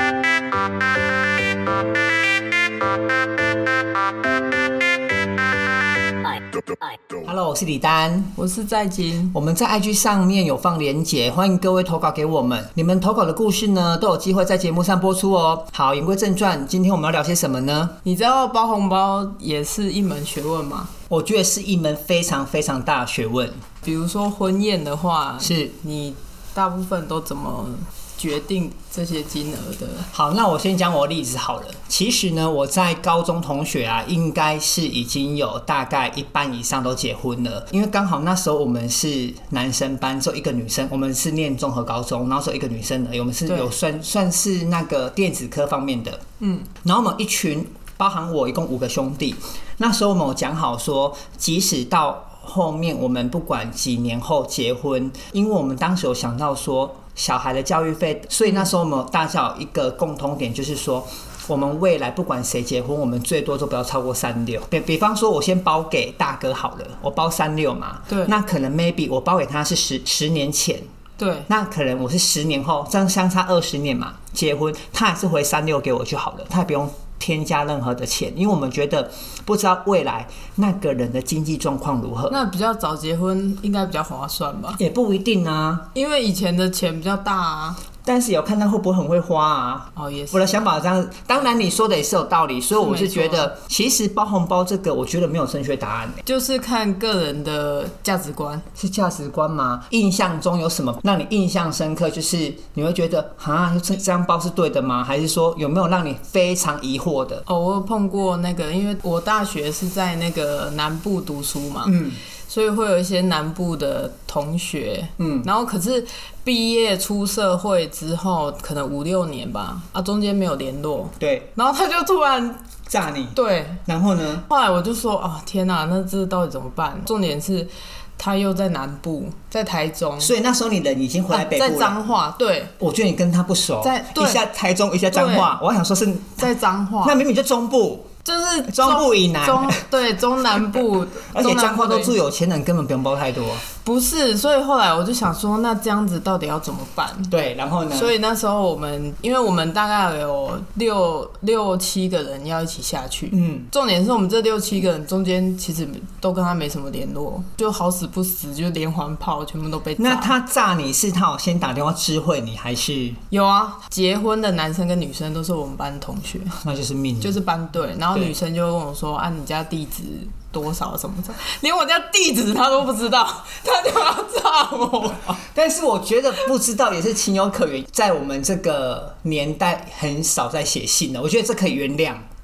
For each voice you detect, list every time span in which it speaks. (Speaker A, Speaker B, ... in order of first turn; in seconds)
Speaker A: 7.2-8.4, 9.3-18.0, 21.1-23.7, 25.4-25.8, 30.1-46.2, 46.8-70.9, 71.5-82.4, 84.8-85.9, 88.0-96.2, 98.8-107.4, 111.8-112.2, 115.2-115.5, 121.2-121.5, 122.9-124.5, 130.2-132.0, 132.8-136.5, 137.0-138.1, 138.7-139.8, 141.3-143.7, 147.3-148.1, 153.3-153.7, 160.0-163.2, 166.6-167.4, 175.4-182.2
Speaker B: 8.4-9.3, 18.1-20.9, 23.8-30.1, 43.5-43.7, 46.4-46.7, 68.1-68.4, 71.2-71.5, 82.3-84.8, 85.9-87.8, 90.0-90.7, 92.8-93.5, 96.2-98.7, 107.5-112.0, 112.5-122.6, 123.3-123.8, 124.5-130.3, 131.3-132.7, 133.8-134.4, 135.1-135.5, 136.4-137.2, 138.2-142.2, 143.8-147.3, 147.9-160.3, 163.3-166.6, 167.2-175.4